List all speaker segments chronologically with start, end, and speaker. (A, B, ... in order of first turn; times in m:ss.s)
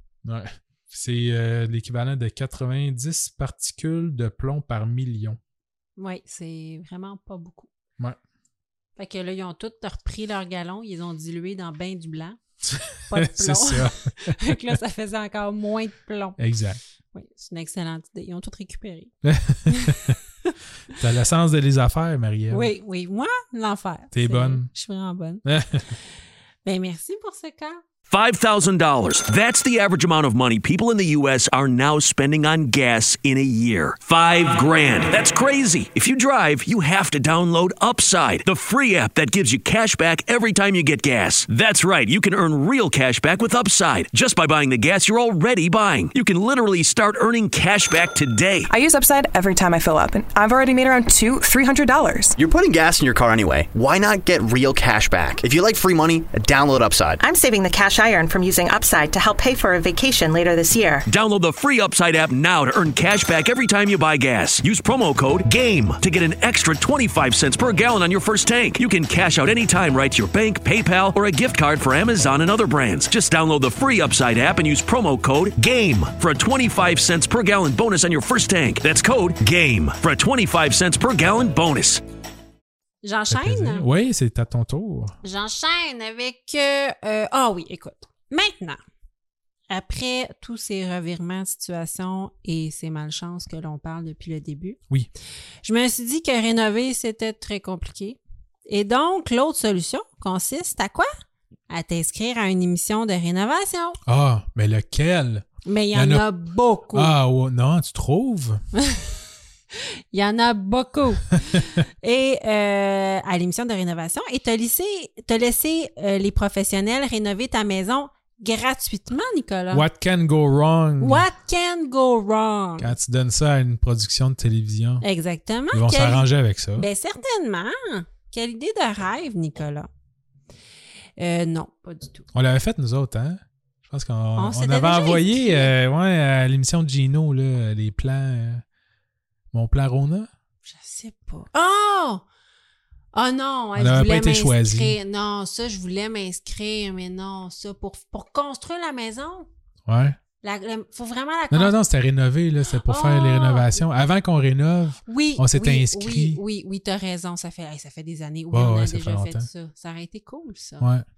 0:00.2-0:05.4 A
0:06.0-0:07.7 B
0:09.0-0:12.4 B
0:12.8-0:14.8 A
0:13.0-0:16.4 B
0:16.4-0:16.8 A
0:17.1-0:19.1 B
0:19.2-0:20.2 A
0:19.7-0:21.0 B
0:20.9-0:22.7 A
0:22.5-0:25.4 B
0:24.1-0:24.7 A
0:25.4-0:26.0 A
0:26.6-0:27.8 B
0:28.1-0:48.7 C
0:48.7-0:52.4 D
0:52.4-0:57.2 E
0:57.2-1:01.0 F
1:01.1-1:22.0 C
1:23.0-1:23.8 B
1:23.3-1:25.2 A
1:25.2-1:28.8 B
1:29.7-1:34.8 B
1:35.6-1:41.1 B
1:41.7-1:44.0 B
1:44.1-1:46.3 A
1:45.6-1:47.1 B
1:46.9-1:48.6 A
1:48.8-1:49.0 B
1:49.8-1:59.9 B
1:59.7-2:01.3 A
2:01.0-2:03.0 B
2:02.8-2:05.0 A
2:05.0-2:09.9 B
2:05.7-2:06.9 A
2:11.2-2:12.3 B
2:12.3-2:18.6 A
2:14.4-2:15.7 B
2:19.5-2:20.3 A
2:20.6-2:22.2 B
2:23.1-2:29.5 B
2:23.8-2:25.0 A
2:29.9-2:30.2 A
2:30.4-2:31.8 B
2:31.5-2:36.4 A
2:32.8-2:33.7 B
2:35.1-2:40.9 B
2:38.5-2:39.5 A
2:40.8-2:41.0 A